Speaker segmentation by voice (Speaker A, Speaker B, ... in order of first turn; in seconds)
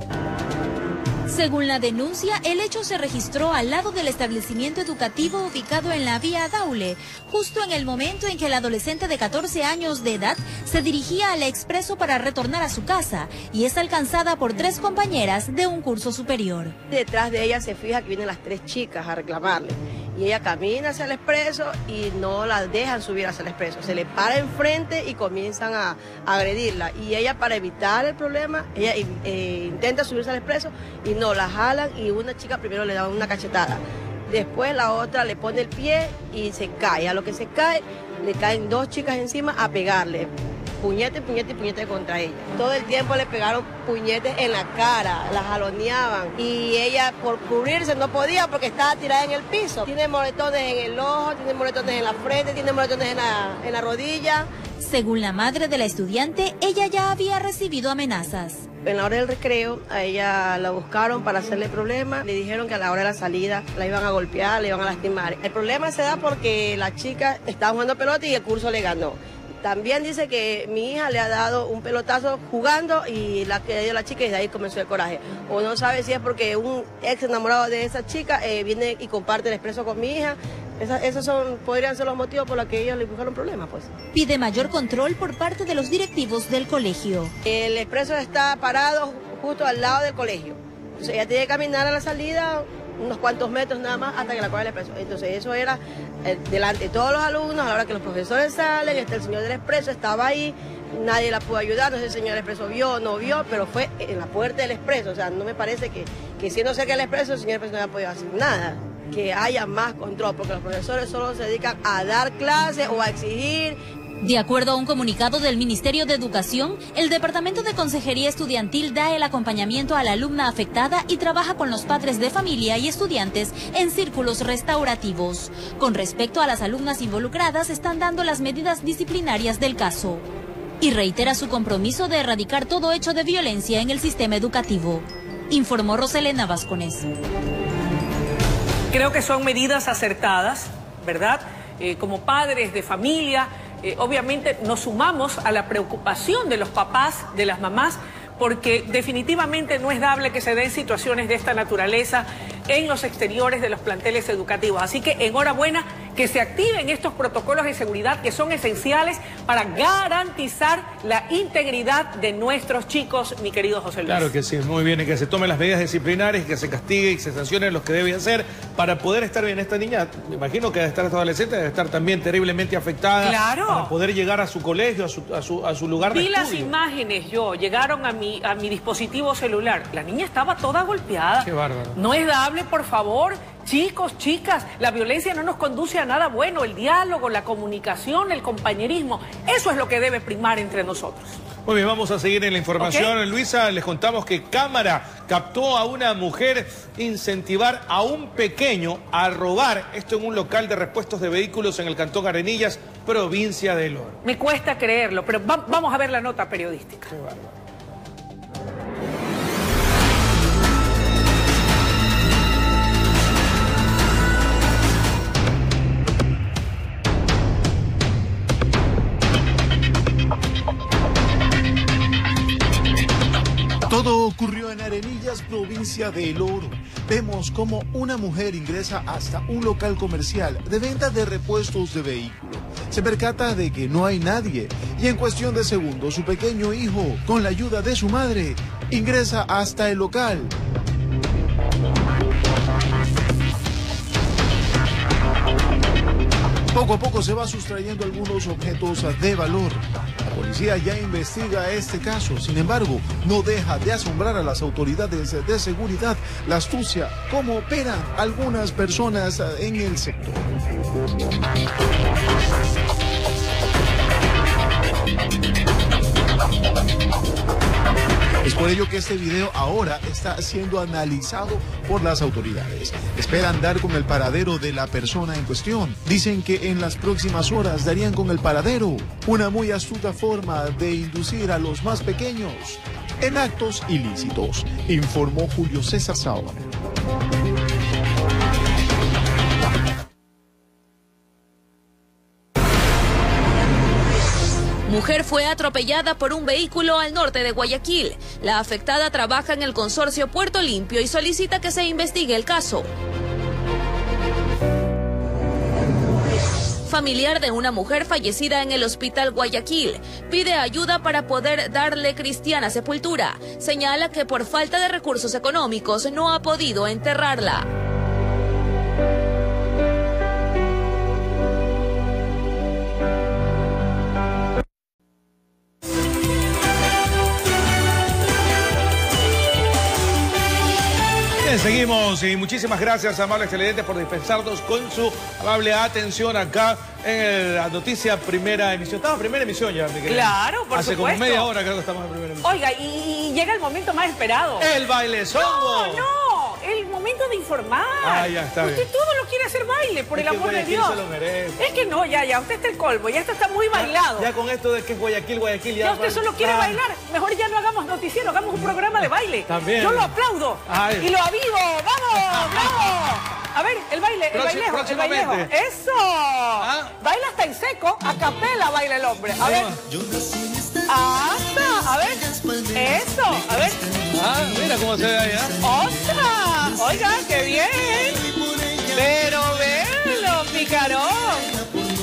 Speaker A: 1.3-16.7, 54.8-58.6, 84.1-87.3, 114.2-130.2, 130.8-137.1
Speaker B: 16.9-40.3, 40.8-54.5, 58.9-83.9, 87.5-113.8
Speaker C: 138.9-164.3, 173.2-173.9, 176.1-191.4, 192.8-193.1, 204.2-207.1, 340.1-341.5, 342.4-344.7, 345.4-351.0, 351.6-354.3, 355.8-369.7, 370.9-373.8, 375.6-378.2, 378.9-381.6
Speaker D: 164.0-176.7, 181.4-181.9, 191.7-204.2, 207.1-207.4, 331.4-342.5, 344.6-346.0, 348.0-348.9, 350.1-351.6, 353.7-356.8, 359.5-360.1, 360.7-361.1, 362.2-362.9, 364.3-365.5, 366.6-366.9, 369.4-369.8, 374.1-375.5
Speaker E: 223.9-240.5, 246.7-260.4, 268.4-286.6
Speaker F: 294.9-302.9, 306.9-317.6